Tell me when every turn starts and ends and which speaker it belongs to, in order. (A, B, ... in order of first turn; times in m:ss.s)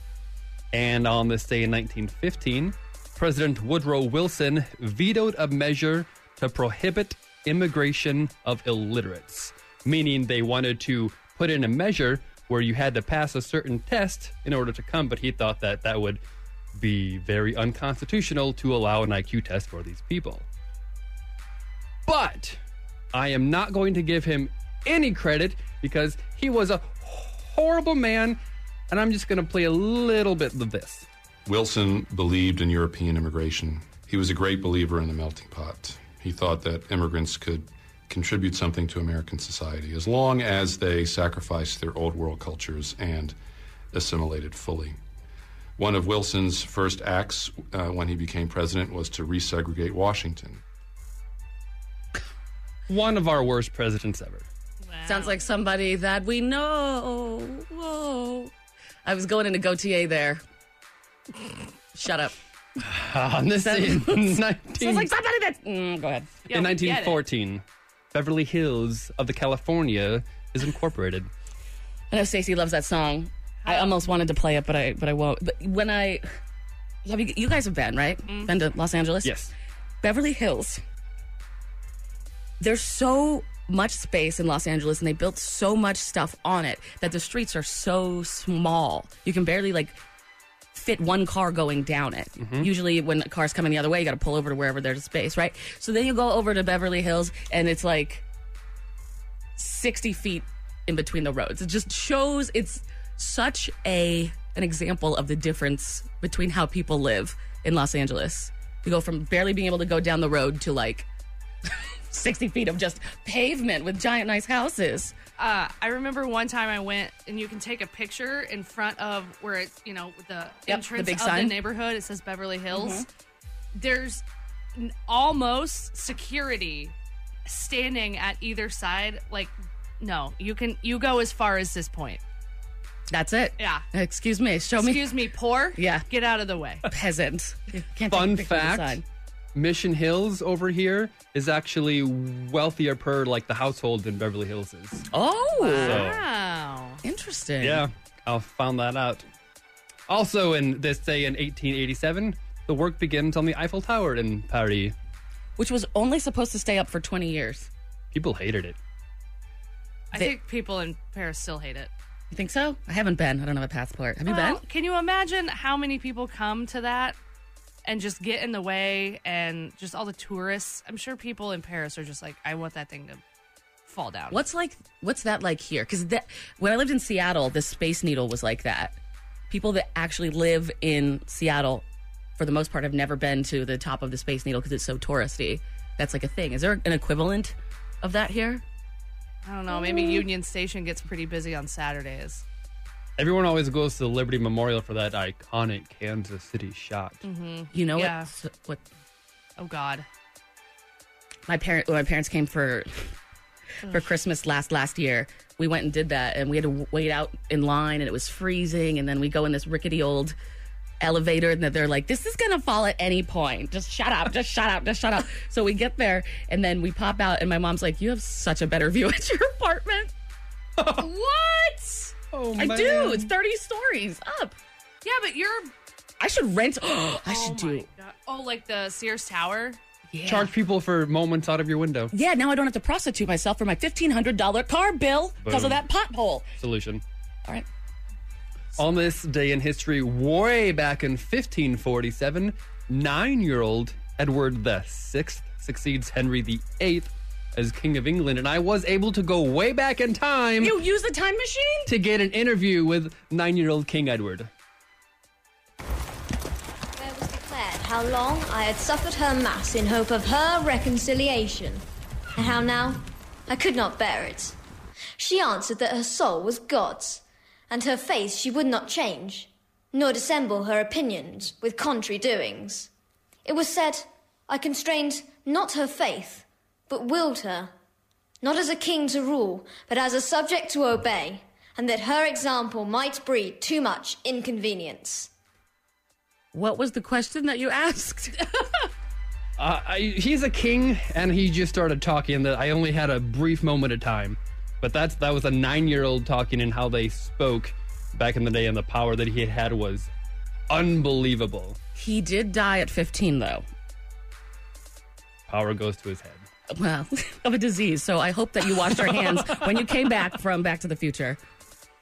0:00.7-0:16.2 A
0:16.7-0:20.4 A
0:22.1-0:22.6 A
0:23.1-0:28.4 A
0:28.9-0:31.0 A
0:31.4-0:43.4 B
0:43.9-0:45.0 B
0:45.8-0:50.6 B
0:52.9-0:54.5 A
0:54.8-0:55.4 C
0:55.0-0:58.5 D
0:59.0-1:00.4 D
1:01.9-1:02.3 D
1:02.8-1:05.1 A
1:03.5-1:06.4 D
1:06.5-1:07.2 C
1:06.5-1:11.3 A
1:12.1-1:16.3 D
1:13.6-1:14.1 C
1:17.0-1:19.3 D
1:18.3-1:18.5 C
1:19.2-1:19.5 A
1:20.0-1:20.8 D
1:22.6-1:30.0 D
1:30.7-1:38.2 D
1:32.4-1:32.7 A
1:39.6-1:51.1 D
1:51.7-1:55.1 D
1:55.4-2:03.0 C
2:00.7-2:01.6 D
2:02.7-2:03.0 D
2:03.7-2:04.2 C
2:04.8-2:06.9 C
2:07.4-2:12.2 C
2:13.1-2:15.1 D
2:13.6-2:13.8 C
2:14.8-2:16.8 C
2:15.7-2:16.0 D
2:16.8-2:19.0 D
2:18.1-2:19.0 A
2:19.5-2:25.1 A
2:25.1-2:26.0 D
2:25.6-2:27.0 C
2:25.8-2:26.2 A
2:27.0-2:27.9 D
2:27.6-2:29.2 A
2:30.1-2:34.9 A
2:35.6-2:37.7 D
2:38.1-2:38.8 A
2:40.1-2:41.9 C
2:42.3-2:44.6 D
2:44.2-2:47.2 C
2:47.8-2:53.2 C
2:53.9-2:54.4 C
2:54.3-2:59.0 D
2:59.5-3:01.8 D
3:02.4-3:08.6 D
3:09.4-3:12.4 C
3:13.2-3:17.2 A
3:17.2-3:18.3 C
3:17.7-3:18.8 D
3:19.6-3:20.0 C
3:21.5-3:23.1 D
3:23.8-3:30.3 D
3:31.0-3:40.1 D
3:40.8-3:41.1 A
3:41.0-3:44.6 D
3:42.3-3:43.3 A
3:45.0-3:45.7 C
3:46.2-3:47.9 D
3:47.2-3:49.8 C
3:50.1-3:50.4 D
3:50.2-3:52.1 A
3:52.1-3:56.4 D
3:55.4-3:55.8 A
3:56.6-3:57.0 A
3:58.8-4:10.8 A
4:10.6-4:11.9 D
4:11.9-4:14.5 A
4:17.0-4:21.8 E
4:22.4-4:24.6 E
4:25.2-4:32.9 E
4:33.4-4:37.7 E
4:38.4-4:45.3 E
4:46.5-4:48.4 D
4:49.6-5:00.1 A
5:00.7-5:01.8 A
5:02.0-5:03.6 D
5:05.5-5:06.4 A
5:06.7-5:11.4 D
5:08.7-5:10.2 A